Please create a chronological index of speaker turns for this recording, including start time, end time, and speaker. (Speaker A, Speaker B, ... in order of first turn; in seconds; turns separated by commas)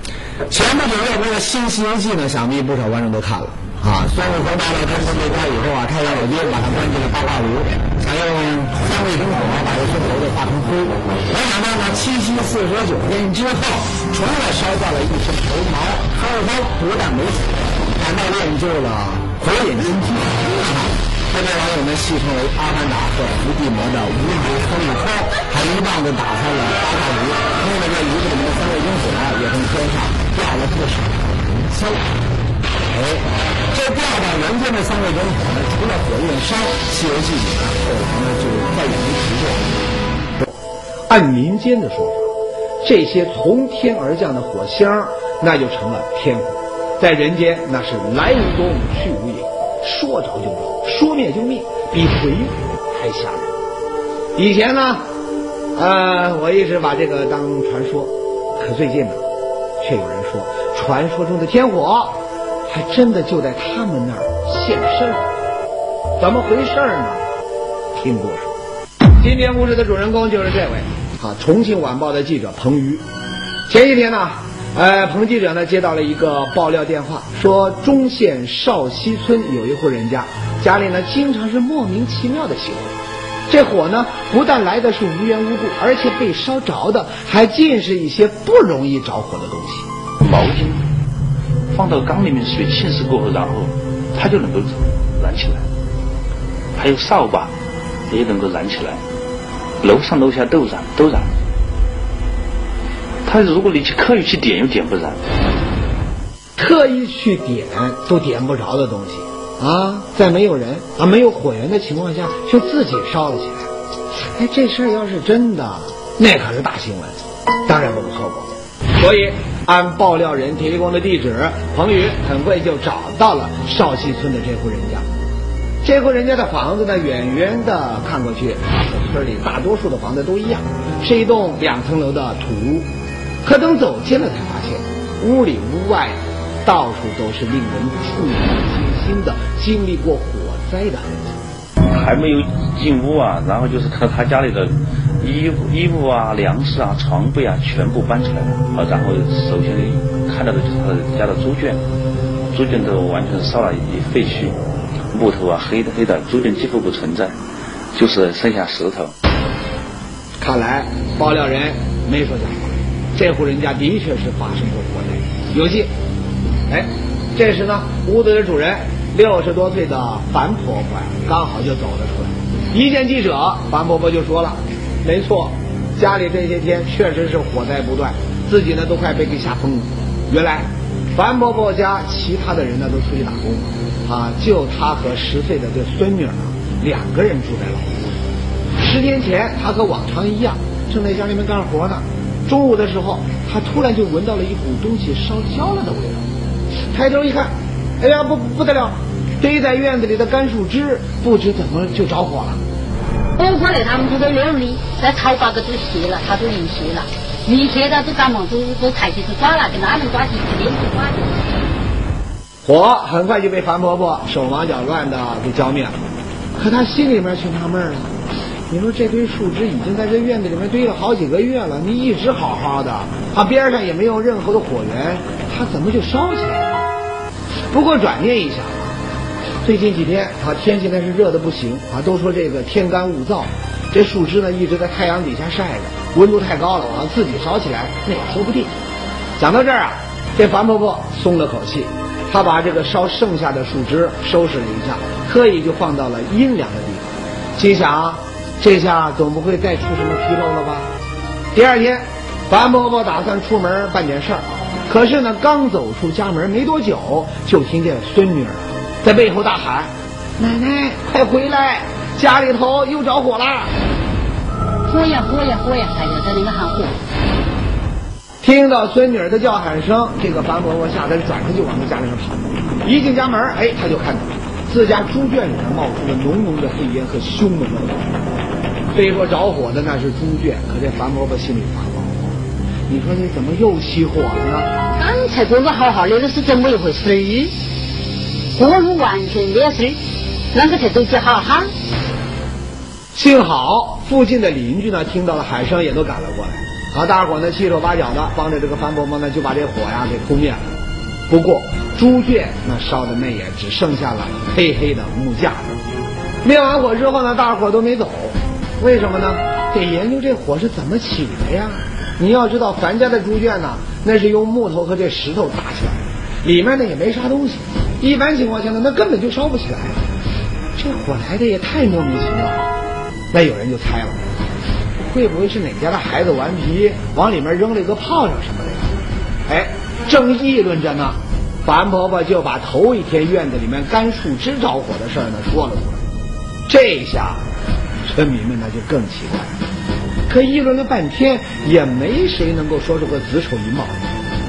Speaker A: 0.5-3.8, Speaker A: 5.9-6.3, Speaker B: 6.2-6.9, Speaker A: 9.5-9.8, Speaker B: 12.1-17.3, Speaker A: 18.1-19.8, Speaker B: 18.3-20.3, Speaker A: 21.3-24.1, Speaker B: 21.7-23.5, Speaker B: 24.1-26.8, Speaker A: 25.5-27.0, Speaker B: 28.2-29.1, Speaker A: 29.7-30.4, Speaker A: 41.1-42.3, Speaker A: 42.8-53.5, Speaker A: 54.4-55.0, Speaker A: 55.8-59.2, Speaker A: 59.8-65.3, Speaker A: 66.2-67.2, Speaker A: 68.0-68.5, Speaker A: 69.2-73.0, Speaker A: 73.7-83.0, Speaker A: 83.5-89.9, Speaker C: 90.2-90.8, Speaker C: 91.7-95.7, Speaker C: 96.8-97.5, Speaker C: 98.1-99.0, Speaker C: 99.8-101.3, Speaker C: 103.2-105.2, Speaker A: 106.6-117.2, Speaker A: 117.7-125.0, Speaker A: 125.8-132.9, Speaker A: 133.4-141.4, Speaker C: 141.9-151.8, Speaker C: 152.5-154.6, Speaker C: 155.1-157.4, Speaker C: 157.9-159.1, Speaker A: 160.4-165.9, Speaker A: 166.7-188.2, Speaker A: 188.8-196.3, Speaker A: 196.9-202.6, Speaker D: 203.4-211.4, Speaker A: 212.7-216.0, Speaker A: 216.6-218.1, Speaker A: 218.7-226.9, Speaker A: 227.7-229.0, Speaker A: 229.6-238.7, Speaker A: 239.4-250.9, Speaker A: 251.5-263.7, Speaker D: 264.9-267.0, Speaker A: 268.4-278.1, Speaker A: 278.9-284.7, Speaker D: 284.9-287.5, Speaker D: 288.6-290.0, Speaker D: 290.5-291.7, Speaker A: 293.1-300.7, Speaker A: 301.3-305.8, Speaker A: 306.4-320.0, Speaker A: 320.8-322.7, Speaker A: 323.3-324.2, Speaker A: 325.1-328.9, Speaker A: 329.5-336.0, Speaker A: 336.7-337.4, Speaker A: 338.1-339.5, Speaker A: 340.3-344.1